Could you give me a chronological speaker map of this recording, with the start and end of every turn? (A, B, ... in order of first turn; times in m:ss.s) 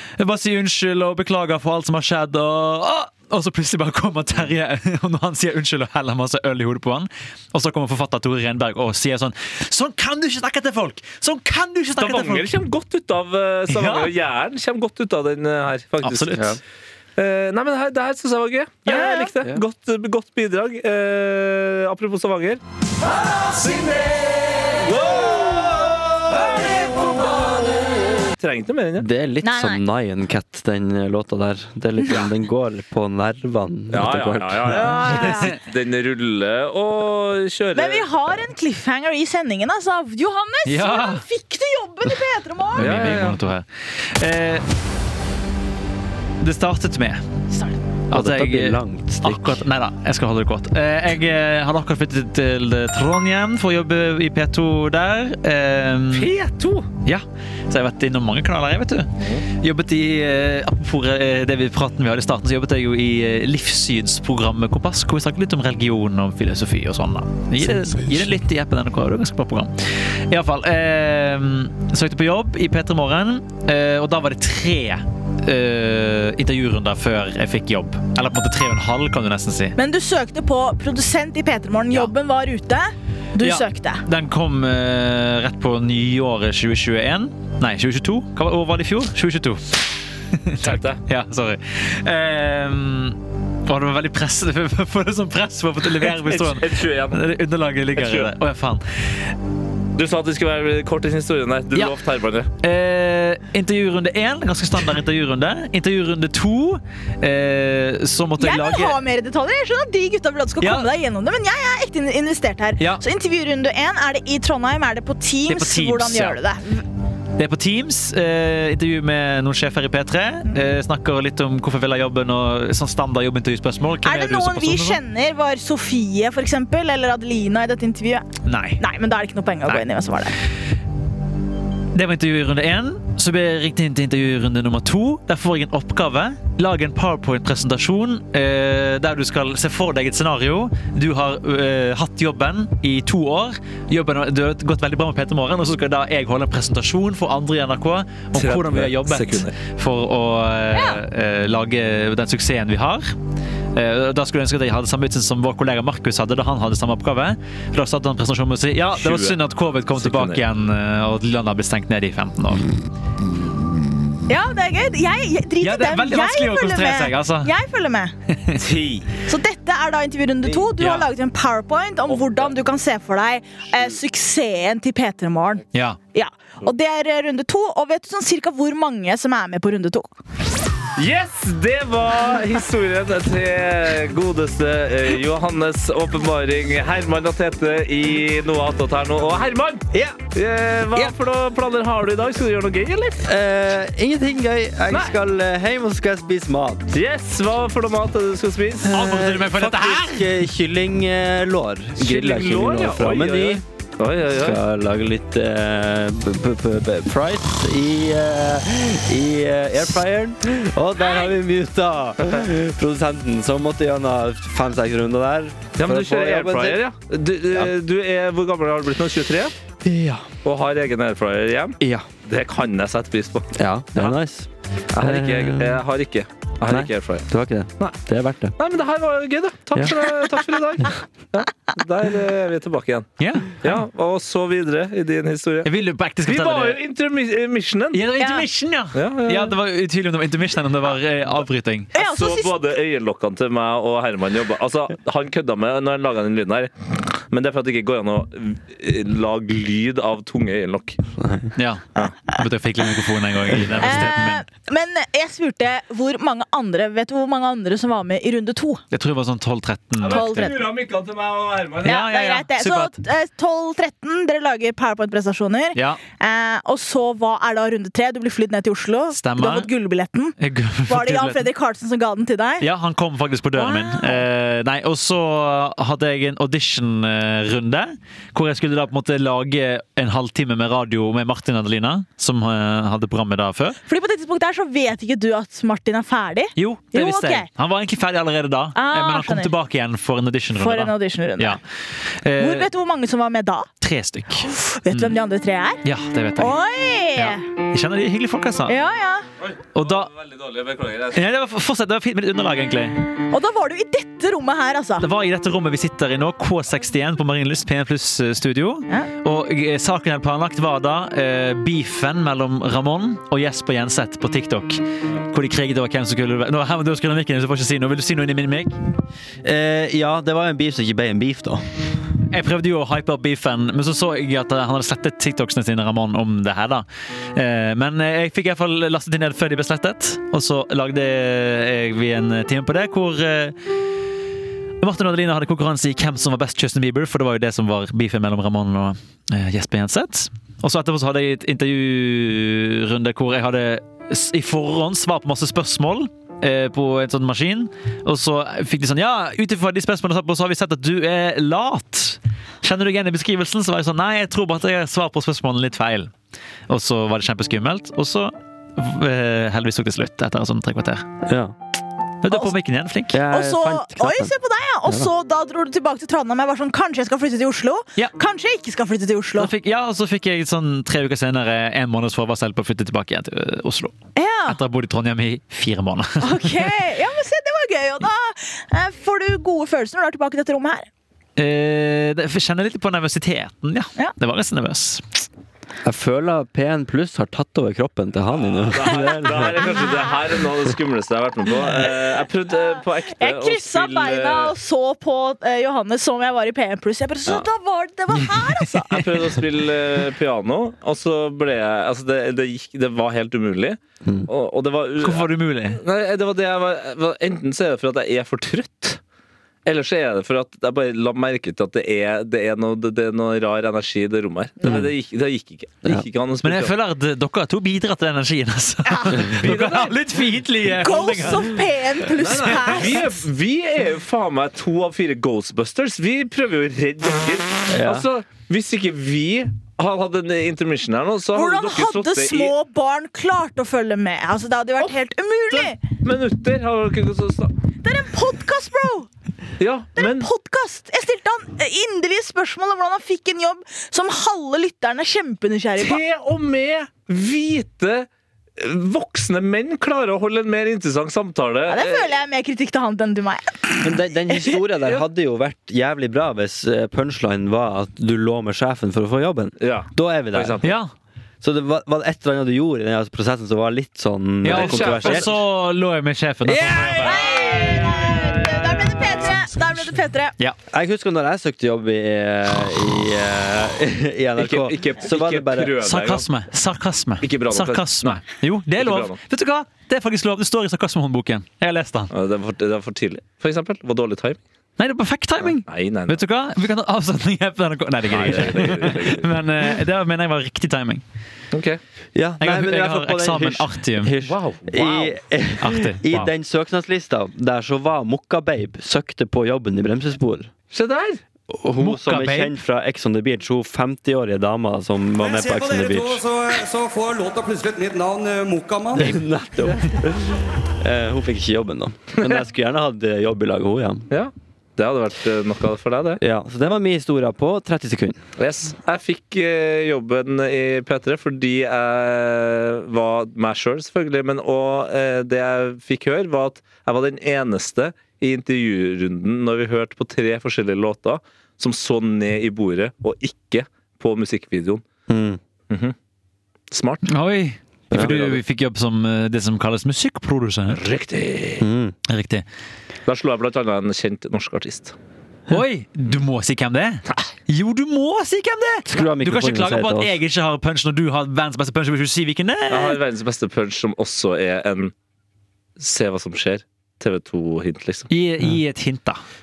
0:00.2-0:12.5 A
0:12.0-0:16.6 B
0:13.7-0:14.1 A
0:16.0-0:16.6 A
0:17.2-0:22.6 B
0:18.9-0:19.3 C
0:23.4-0:29.1 B
0:29.0-0:35.0 D
0:29.4-0:29.8 C
0:33.9-0:38.1 B
0:34.7-0:35.5 C
0:37.8-0:43.1 C
0:40.7-0:41.2 A
0:42.8-0:44.6 A
0:42.8-0:43.4 B
0:46.4-0:47.2 A
0:47.5-0:47.8 C
0:48.1-0:56.3 A
0:48.1-0:49.6 D
0:56.1-0:56.9 B
0:57.0-1:09.8 A
0:59.2-0:59.4 B
1:10.3-1:19.8 A
1:19.8-1:24.0 C
1:23.4-1:29.7 A
1:30.5-1:38.8 A
1:30.6-1:31.0 B
1:36.0-1:37.2 B
1:38.0-1:38.3 B
1:39.9-1:42.5 B
1:42.6-1:49.0 A
1:48.4-1:56.8 C
1:50.6-1:50.9 A
1:55.5-1:56.4 A
1:57.4-2:05.0 A
2:04.0-2:08.3 C
2:08.4-2:08.8 A
2:08.8-2:10.4 C
2:11.9-2:33.1 A
2:28.4-2:29.6 B
2:30.7-2:31.0 C
2:33.8-2:42.7 A
2:39.0-2:39.4 B
2:40.0-2:40.4 B
2:44.3-2:48.1 C
2:45.6-2:47.5 A
2:48.3-2:48.6 A
2:48.6-2:49.1 B
2:49.3-3:00.1 C
2:50.8-2:51.0 A
2:52.1-2:52.5 B
3:01.0-3:13.2 B
3:09.9-3:10.2 D
3:13.2-3:16.9 D
3:16.9-3:19.0 B
3:18.8-3:23.6 D
3:18.9-3:20.3 A
3:22.0-3:24.6 B
3:24.3-3:36.9 D
3:31.0-3:31.4 C
3:35.8-3:39.5 B
3:39.8-3:40.3 D
3:40.4-3:44.2 B
3:41.8-3:42.1 D
3:43.6-3:45.8 D
3:44.9-3:47.3 B
3:46.7-3:48.6 D
3:48.6-3:55.7 B
3:53.2-3:53.6 A
3:55.6-3:56.8 A
3:56.2-3:58.0 B
3:57.9-4:01.9 A
3:58.2-3:58.5 C
3:59.0-3:59.6 B
4:01.9-4:02.6 C
4:01.9-4:11.0 B
4:11.2-4:11.5 D
4:11.6-4:14.4 A
4:13.8-4:18.8 C
4:18.9-4:20.5 A
4:20.0-4:22.0 B
4:20.1-4:20.7 C
4:21.8-4:22.9 A
4:21.8-4:32.6 C
4:25.8-4:26.0 A
4:29.1-4:29.7 A
4:30.4-4:31.5 A
4:32.6-4:43.8 A
4:33.6-4:34.2 C
4:43.9-4:47.5 C
4:46.6-4:51.6 A
4:48.8-4:49.5 C
4:50.6-4:51.6 C
4:52.2-4:52.7 A
4:52.4-4:53.7 C
4:53.8-4:55.2 A
4:54.6-4:55.8 C
4:55.8-4:56.6 A
4:56.4-4:57.4 C
4:57.2-4:58.8 A
4:58.7-4:59.3 C
4:59.5-5:01.2 B
4:59.8-5:00.1 A
5:01.1-5:03.0 A
5:03.3-5:05.0 C
5:05.0-5:18.7 A
5:19.4-5:21.6 D
5:22.3-5:33.6 A
5:34.8-5:56.1 A
5:56.7-6:01.1 A
6:01.3-6:01.6 D
6:02.2-6:03.2 A
6:03.1-6:04.3 D
6:03.3-6:09.5 C
6:09.4-6:14.0 A
6:14.2-6:14.6 C
6:14.5-6:16.7 A
6:16.2-6:20.9 C
6:21.4-6:25.3 A
6:25.8-6:30.0 D
6:28.7-6:34.5 B
6:33.1-6:39.0 C
6:38.8-6:49.0 B
6:45.0-6:45.8 A
6:49.6-6:56.8 B
6:56.4-7:01.6 A
6:58.9-6:59.3 C
6:59.4-7:00.0 B
7:00.8-7:03.2 C
7:02.1-7:12.6 B
7:07.7-7:08.1 D
7:11.3-7:15.8 C
7:15.5-7:17.5 B
7:17.8-7:19.1 C
7:19.6-7:20.3 B
7:20.0-7:26.0 C
7:25.8-7:32.1 B
7:31.7-7:34.6 C
7:33.8-7:40.6 D
7:39.6-7:40.8 B
7:40.6-7:40.9 A
7:41.4-7:45.3 D
7:44.4-7:45.4 B
7:44.4-7:47.2 A
7:46.6-7:48.9 B
7:46.6-7:50.3 C
7:50.7-7:56.0 D
7:54.4-7:56.2 B
7:55.8-8:02.1 A
7:57.2-7:58.2 B
7:58.8-7:59.2 B
8:02.1-8:04.4 B
8:04.8-8:11.0 A
8:05.4-8:06.2 B
8:08.1-8:09.3 B
8:11.5-8:11.8 B
8:12.2-8:20.5 D
8:12.4-8:14.1 A
8:14.2-8:15.2 B
8:15.6-8:16.2 A
8:20.7-8:21.2 B
8:21.5-8:26.2 D
8:21.8-8:22.6 A
8:25.2-8:29.2 E
8:29.0-8:34.1 D
8:29.6-8:30.0 B
8:34.1-8:36.2 B
8:36.2-8:38.2 D
8:38.4-8:54.8 B
8:55.1-8:55.4 D
8:55.7-8:56.0 B
8:56.7-8:57.1 B
8:57.1-9:00.8 A
8:57.9-8:58.2 D
8:57.9-8:58.4 B
9:00.7-9:01.7 B
9:01.6-9:02.0 D
9:02.1-9:02.4 A
9:03.1-9:05.0 B
9:05.5-9:13.0 A
9:08.9-9:10.2 D
9:12.7-9:14.9 B
9:15.8-9:18.1 B
9:18.1-9:19.2 A